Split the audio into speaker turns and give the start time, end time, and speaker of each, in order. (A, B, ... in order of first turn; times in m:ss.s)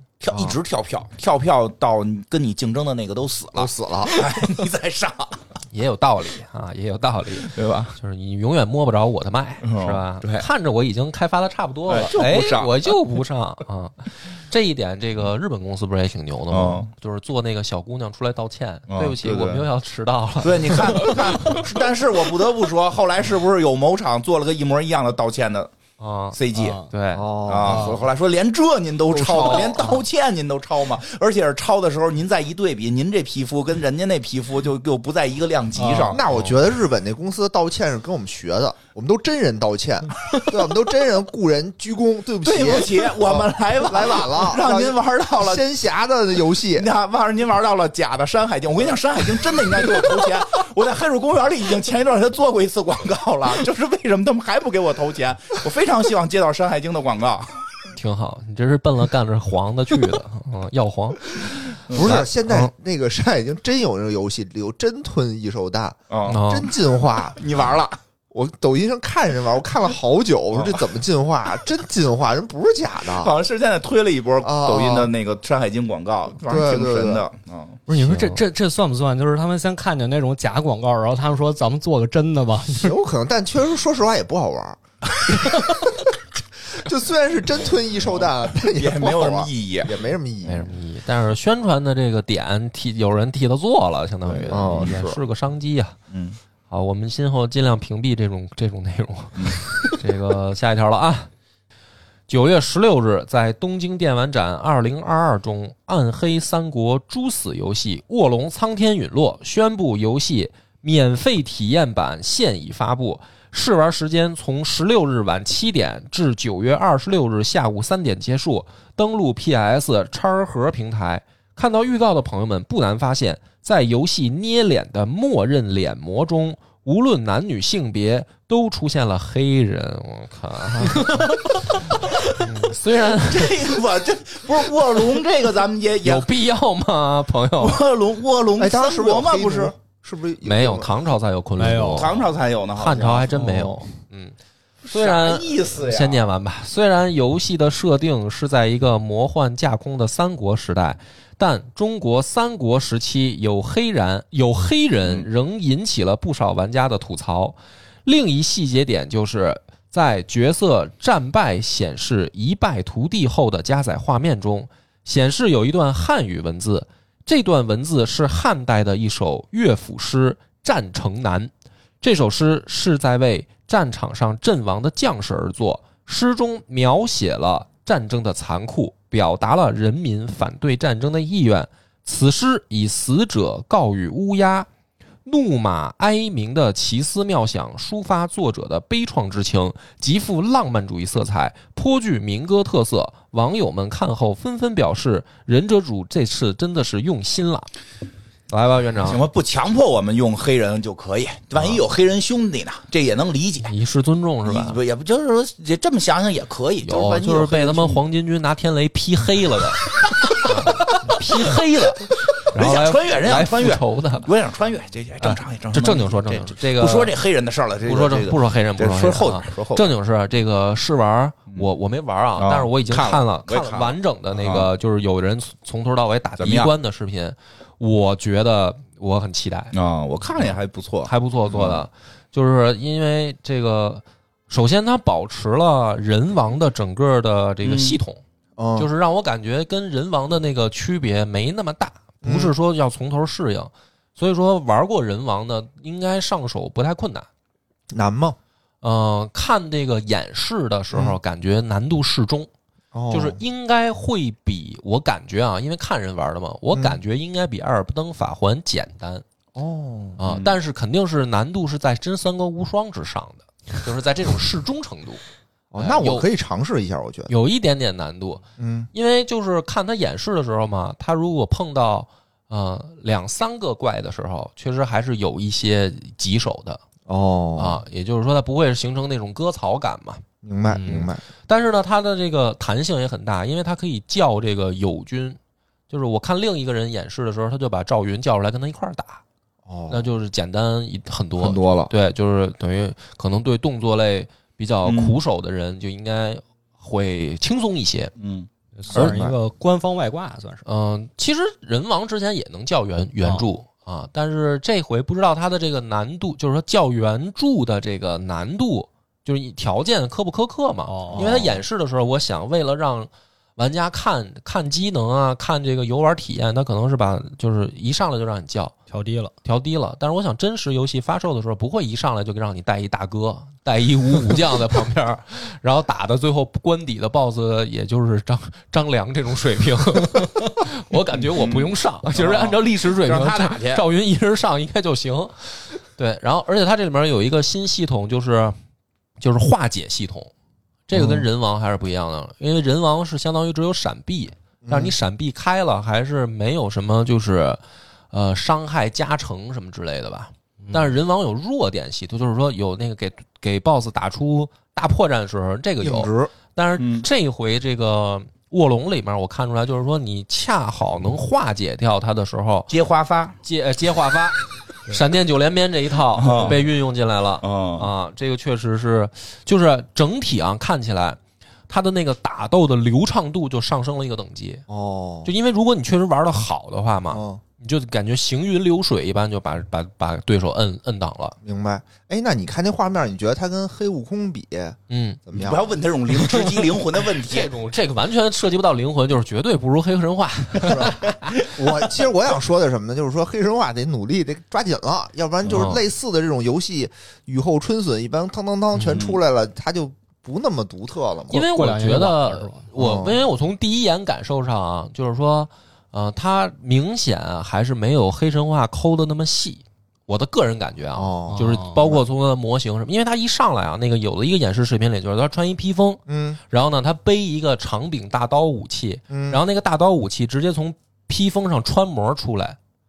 0:00.2-0:05.4 A
0:03.6-0:04.2 B
0:05.7-0:21.6 C
0:07.4-0:08.0 A
0:09.6-0:10.4 A
0:11.9-0:12.9 A
0:16.5-0:16.9 A
0:18.9-0:19.6 A
0:20.4-0:25.7 A
0:26.0-0:27.3 C
0:26.3-0:26.8 A
0:26.5-0:26.8 D
0:27.1-0:28.0 B
0:27.4-0:36.2 A
0:27.6-0:28.0 D
0:29.1-0:30.0 B
0:35.8-0:36.2 D
0:36.0-0:46.9 B
0:42.4-0:45.6 A
0:46.8-0:57.6 A
0:57.9-1:02.7 C
1:01.8-1:02.2 A
1:01.9-1:07.4 B
1:06.1-1:06.5 A
1:06.3-1:06.7 C
1:07.3-1:08.0 A
1:08.3-1:13.3 B
1:10.5-1:10.9 A
1:13.1-1:17.8 A
1:14.4-1:15.1 B
1:16.4-1:17.2 B
1:17.9-1:23.0 D
1:18.0-1:18.4 C
1:22.8-1:26.1 B
1:26.7-1:30.7 B
1:28.0-1:29.9 A
1:30.4-1:36.0 C
1:34.3-1:35.2 A
1:34.5-1:35.1 B
1:36.1-1:36.4 A
1:36.7-1:41.3 C
1:42.3-2:13.6 C
2:13.1-2:16.3 A
2:16.0-2:17.8 C
2:17.6-2:19.7 A
2:18.6-2:20.9 B
2:20.4-2:22.2 C
2:21.6-2:22.1 D
2:21.9-2:23.4 A
2:22.8-2:24.3 C
2:24.8-2:26.2 A
2:24.9-3:04.7 C
3:05.2-3:17.7 C
3:18.5-3:19.2 C
3:19.0-3:23.7 A
3:23.6-3:24.8 C
3:24.4-3:28.0 A
3:26.8-3:34.3 C
3:30.5-3:30.9 A
3:32.1-3:39.9 A
3:35.2-3:37.1 C
3:37.9-3:49.7 C
3:42.4-3:44.7 A
3:46.4-3:46.7 A
3:49.7-3:51.8 A
3:51.0-3:58.2 C
3:57.6-3:58.0 A
3:58.6-3:58.9 B
3:58.8-4:07.3 C
4:02.2-4:02.5 B
4:07.9-4:08.4 B
4:08.8-4:12.5 C
4:10.9-4:11.2 B
4:12.9-4:13.4 B
4:13.1-4:19.2 C
4:16.7-4:17.0 B
4:19.6-4:20.2 B
4:20.2-4:25.2 C
4:20.2-4:20.6 A
4:25.7-4:27.3 B
4:25.8-4:26.3 C
4:27.3-4:36.8 C
4:28.6-4:28.9 B
4:37.1-4:37.8 B
4:37.6-4:40.2 C
4:40.4-4:41.2 B
4:40.8-4:45.4 C
4:45.9-4:49.2 C
4:49.6-4:50.0 B
4:49.9-4:58.1 C
4:51.4-4:51.9 B
4:54.8-4:55.2 A
4:58.2-4:58.5 A
4:58.8-5:00.6 D
4:58.9-4:59.3 B
5:00.6-5:18.8 C
5:10.8-5:11.4 D
5:11.1-5:11.5 B
5:18.9-5:19.3 D
5:19.4-5:38.6 C
5:31.2-5:33.8 A
5:39.2-5:40.3 C
5:40.9-5:47.6 C
5:40.9-5:41.2 B
5:44.6-5:44.9 B
5:48.1-6:02.7 C
5:55.8-5:56.3 B
5:56.8-5:57.0 A
6:02.7-6:03.4 A
6:03.4-6:14.6 C
6:06.1-6:06.6 A
6:07.4-6:07.9 A
6:14.7-6:15.3 B
6:15.2-6:21.4 C
6:17.1-6:17.4 B
6:21.4-6:25.6 B
6:24.9-6:25.2 C
6:25.3-6:27.5 A
6:26.1-6:31.4 C
6:30.6-6:41.4 B
6:35.5-6:35.8 C
6:38.7-6:39.0 C
6:38.9-6:39.2 A
6:41.3-7:02.6 C
6:41.3-6:42.6 D
6:42.7-6:43.2 B
6:51.0-6:52.0 B
6:51.3-6:51.8 D
6:56.1-6:56.4 B
6:59.1-6:59.4 B